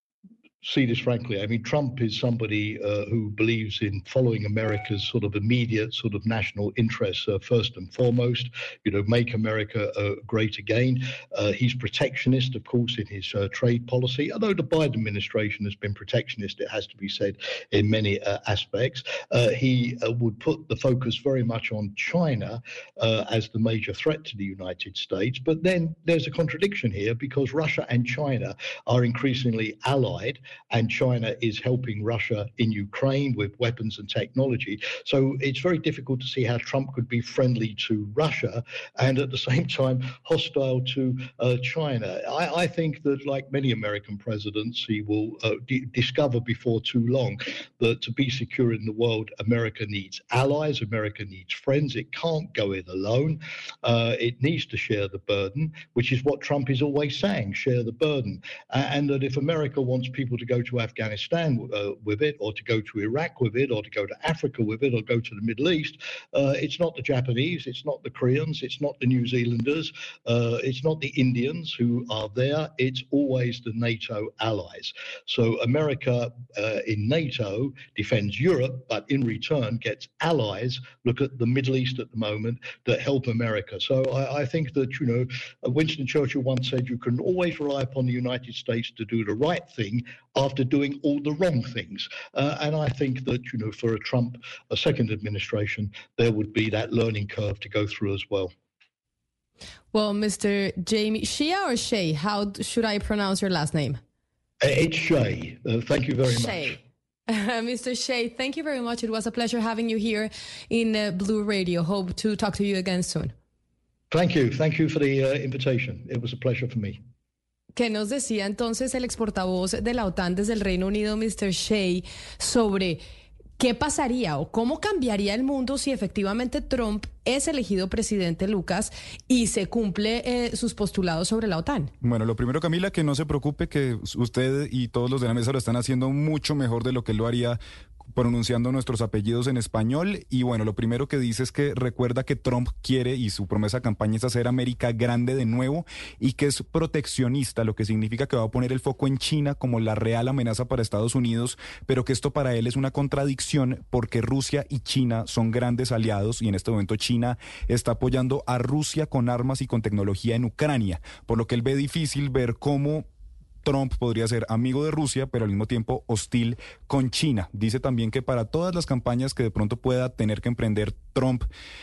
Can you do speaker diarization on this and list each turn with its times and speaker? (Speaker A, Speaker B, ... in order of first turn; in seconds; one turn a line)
Speaker A: 0.6-98.5
Speaker B: 99.9-104.0
Speaker A: 104.6-106.8
Speaker B: 106.3-113.3
Speaker A: 114.1-117.0
Speaker B: 117.7-123.0
Speaker B: 123.6-131.9
Speaker C: 132.0-137.6
Speaker C: 138.1-163.1
Speaker C: 163.6-171.5